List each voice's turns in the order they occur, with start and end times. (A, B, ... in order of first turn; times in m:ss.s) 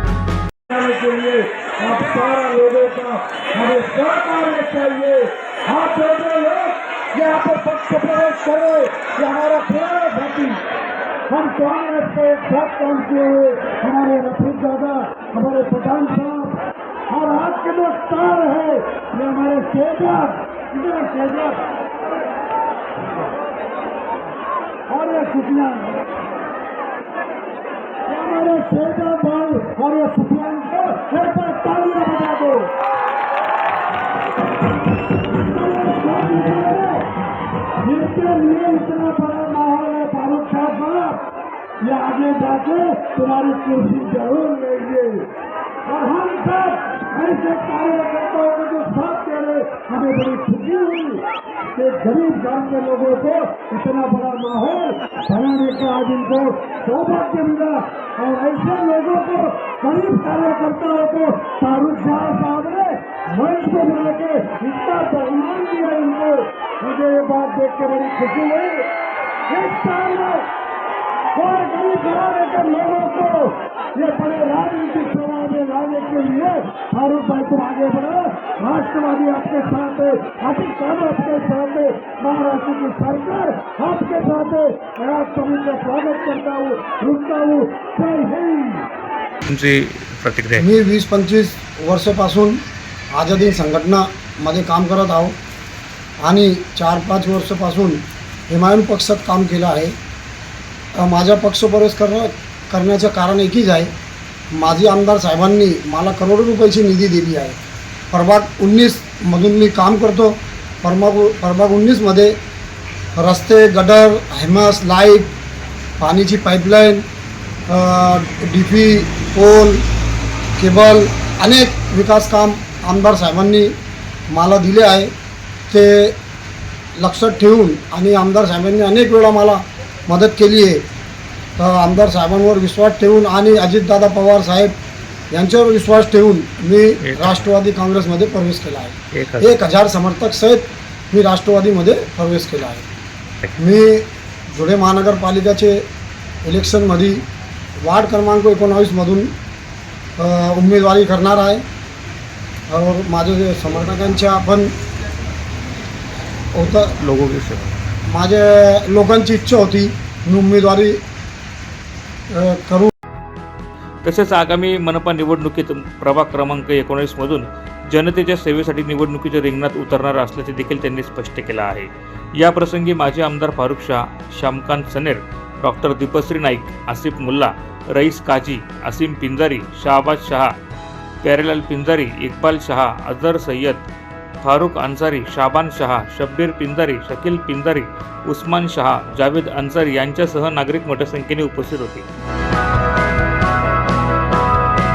0:00.7-0:10.6 A
0:11.3-0:21.6 A
0:24.9-0:26.0 A
0:28.1-0:32.7 A
0:35.3-0:37.1 A
0:37.8-0:41.2 A
0:41.8-0:45.3 A
0:45.8-1:08.9 A
1:09.5-1:10.5 A
1:11.4-1:28.9 A
1:29.4-1:30.7 B
1:30.6-1:32.6 C
1:33.1-1:35.4 C
1:36.2-1:39.9 C
1:41.0-1:43.9 C
1:44.5-1:47.6 C
1:48.1-1:52.3 C
1:53.2-1:55.3 C
1:56.0-1:57.0 C
1:57.7-1:59.8 C
2:00.6-2:03.7 C
2:04.3-2:05.1 C
2:05.7-2:06.2 C
2:07.0-2:10.8 C
2:11.6-2:14.7 C
2:15.3-2:22.9 C
2:17.0-2:17.5 B
2:19.1-2:19.6 B
2:23.6-2:25.8 C
2:26.4-2:27.2 C
2:27.8-2:29.3 C
2:30.2-2:31.6 C
2:32.7-2:34.7 C
2:36.6-2:37.0 C
2:37.0-2:37.8 B
2:38.1-2:41.0 C
2:42.3-2:42.9 C
2:44.0-3:00.5 B
3:01.2-3:03.9 B
3:04.4-3:12.1 B